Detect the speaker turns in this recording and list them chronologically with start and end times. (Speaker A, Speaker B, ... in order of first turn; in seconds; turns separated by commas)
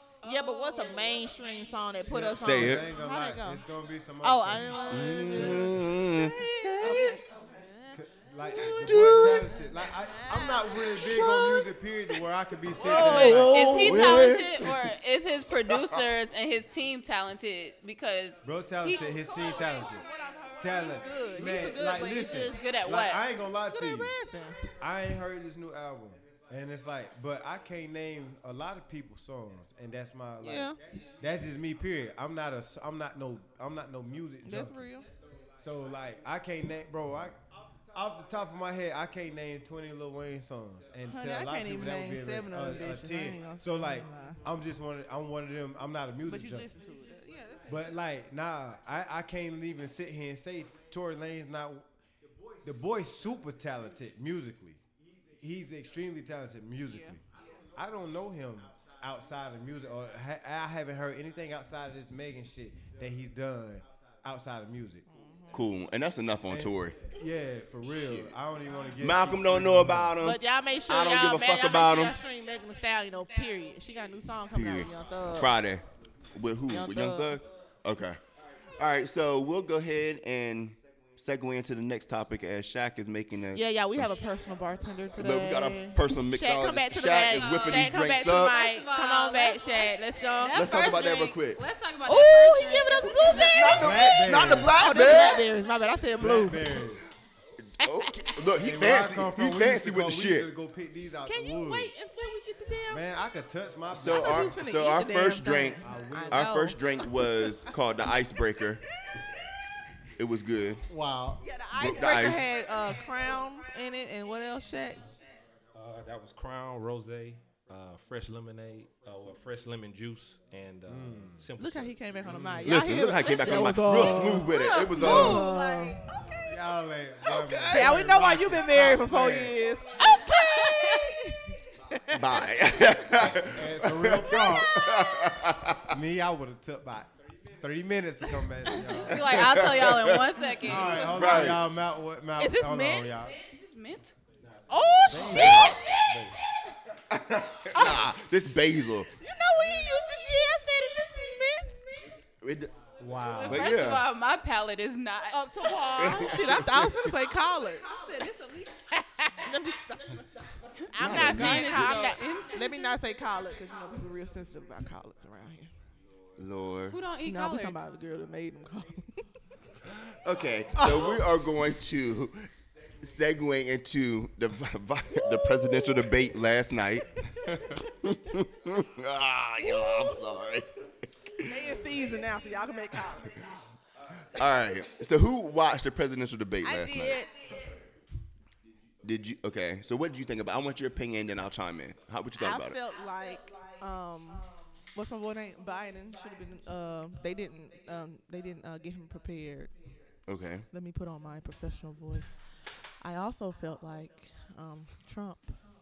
Speaker A: 0.2-3.6, Speaker B: 2.1-5.9, Speaker C: 2.3-2.8, Speaker A: 4.2-8.0, Speaker C: 4.9-7.2, Speaker B: 7.9-13.8, Speaker C: 8.6-9.5, Speaker A: 8.9-11.4, Speaker C: 11.0-11.6, Speaker A: 12.8-14.1, Speaker C: 12.8-14.8, Speaker D: 12.8-19.0, Speaker C: 15.7-16.0, Speaker B: 18.4-20.0, Speaker A: 18.9-22.7, Speaker B: 20.6-24.1, Speaker D: 22.4-23.2, Speaker A: 23.7-24.6, Speaker B: 24.8-34.9, Speaker A: 30.4-30.8, Speaker A: 34.4-35.1, Speaker B: 35.6-37.4, Speaker B: 37.9-46.7, Speaker A: 41.0-44.4, Speaker A: 46.3-47.9, Speaker B: 47.7-51.9, Speaker B: 52.6-54.8, Speaker B: 55.4-57.2, Speaker A: 56.9-57.2, Speaker B: 57.7-65.0, Speaker A: 65.1-65.6, Speaker C: 65.5-67.0, Speaker B: 66.5-70.1, Speaker C: 67.9-68.3, Speaker C: 69.0-72.1, Speaker A: 70.2-75.5, Speaker C: 74.5-78.2, Speaker A: 76.7-77.4, Speaker C: 78.8-84.1, Speaker A: 83.5-90.7, Speaker C: 85.2-88.6, Speaker D: 87.3-94.2, Speaker C: 90.5-91.6, Speaker A: 92.0-96.8, Speaker C: 93.2-95.5, Speaker B: 93.8-94.8, Speaker B: 96.2-97.1, Speaker C: 97.8-100.5, Speaker A: 97.8-98.1, Speaker B: 98.6-101.9, Speaker A: 101.2-103.0, Speaker B: 102.9-104.6, Speaker C: 103.9-108.8, Speaker A: 104.1-107.6, Speaker B: 105.8-106.7, Speaker C: 110.2-110.8, Speaker B: 110.9-111.4, Speaker A: 111.4-115.0, Speaker C: 111.7-112.5, Speaker E: 115.7-121.9, Speaker B: 120.9-121.4, Speaker A: 121.6-126.4, Speaker B: 122.3-122.7, Speaker C: 122.6-125.4, Speaker B: 123.9-124.2, Speaker D: 124.5-126.0, Speaker B: 126.4-129.6, Speaker C: 127.2-127.9, Speaker A: 127.7-132.5, Speaker D: 130.3-131.0, Speaker C: 132.1-135.9, Speaker B: 133.1-134.8, Speaker B: 135.9-139.5, Speaker D: 138.7-141.6, Speaker C: 139.1-140.3, Speaker B: 140.6-143.3, Speaker C: 141.1-141.6, Speaker A: 142.4-143.3, Speaker D: 143.5-144.1, Speaker E: 144.5-145.1, Speaker A: 144.7-146.3, Speaker B: 145.1-146.3, Speaker C: 145.3-145.8, Speaker D: 145.4-145.7, Speaker C: 147.1-149.1, Speaker A: 149.1-152.1, Speaker C: 152.4-152.7, Speaker B: 153.0-153.8, Speaker D: 153.2-156.2, Speaker C: 153.4-154.0, Speaker A: 155.3-157.9, Speaker C: 156.0-156.9, Speaker D: 157.9-159.5, Speaker A: 159.2-160.2, Speaker A: 160.8-165.7, Speaker C: 161.0-162.1, Speaker D: 161.0-163.0, Speaker C: 166.4-167.0, Speaker D: 166.9-167.8, Speaker A: 167.2-169.2, Speaker C: 169.9-172.5, Speaker B: 170.8-171.1, Speaker C: 173.0-177.1, Speaker A: 175.5-176.0, Speaker C: 177.8-180.7, Speaker C: 181.2-181.7, Speaker A: 181.4-183.4, Speaker C: 184.3-187.2, Speaker A: 186.6-187.3, Speaker C: 189.0-192.8, Speaker A: 192.4-199.7, Speaker C: 200.3-200.7, Speaker A: 200.7-202.3, Speaker A: 203.0-205.6